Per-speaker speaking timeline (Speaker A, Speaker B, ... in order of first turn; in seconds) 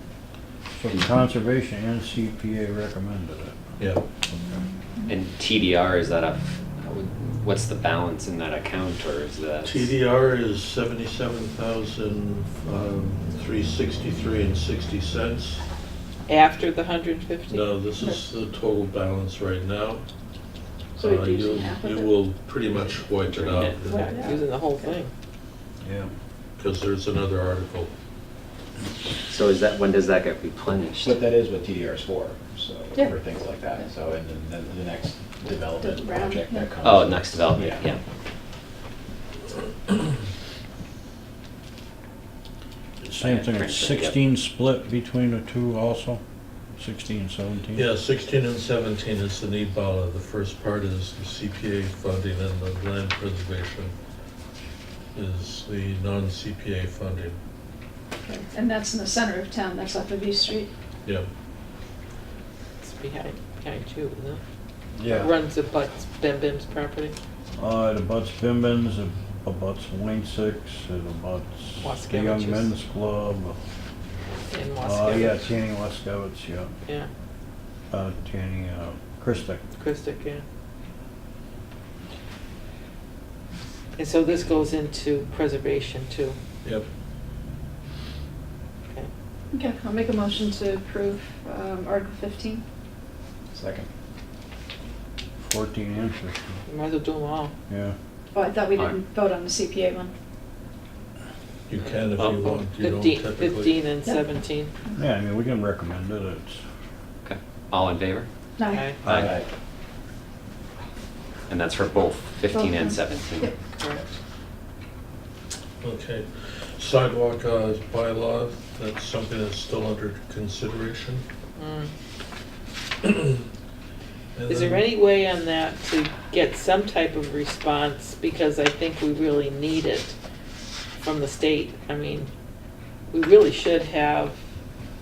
Speaker A: 0.8-3.6, 4.3-4.6, 25.8-26.1, 43.0-46.2, 46.8-47.9, 65.0-65.3, 67.6-73.6, 74.8-76.7, 77.9-79.6, 95.4-96.6, 97.7-98.0, 105.0-106.6, 109.0-109.3
Speaker B: 3.8-4.0, 9.6-15.6, 17.5-20.0, 21.0-24.3, 26.6-27.9, 47.7-53.9, 55.1-57.4, 101.7-103.8, 115.8-121.2, 123.0-123.5, 124.3-124.9
Speaker C: 5.1-9.8, 23.2-23.8, 29.3-31.1, 36.9-38.0, 43.2-44.2, 107.2-108.3, 111.5-113.5
Speaker D: 16.3-17.7, 23.9-25.1, 62.8-64.4, 65.0-67.2, 71.8-72.7, 74.5-75.4, 79.8-80.5, 84.0-86.4, 96.7-97.5, 102.2-104.7, 108.7-109.0, 121.6-121.9, 124.5-130.2, 131.0-132.3, 133.1-134.4
Speaker E: 21.0-22.1, 23.9-25.0, 35.8-36.7, 58.2-60.7, 89.5-92.6, 98.3-100.1, 108.6-108.9, 112.5-113.5
Speaker F: 31.0-37.9, 93.5-93.9, 109.1-109.5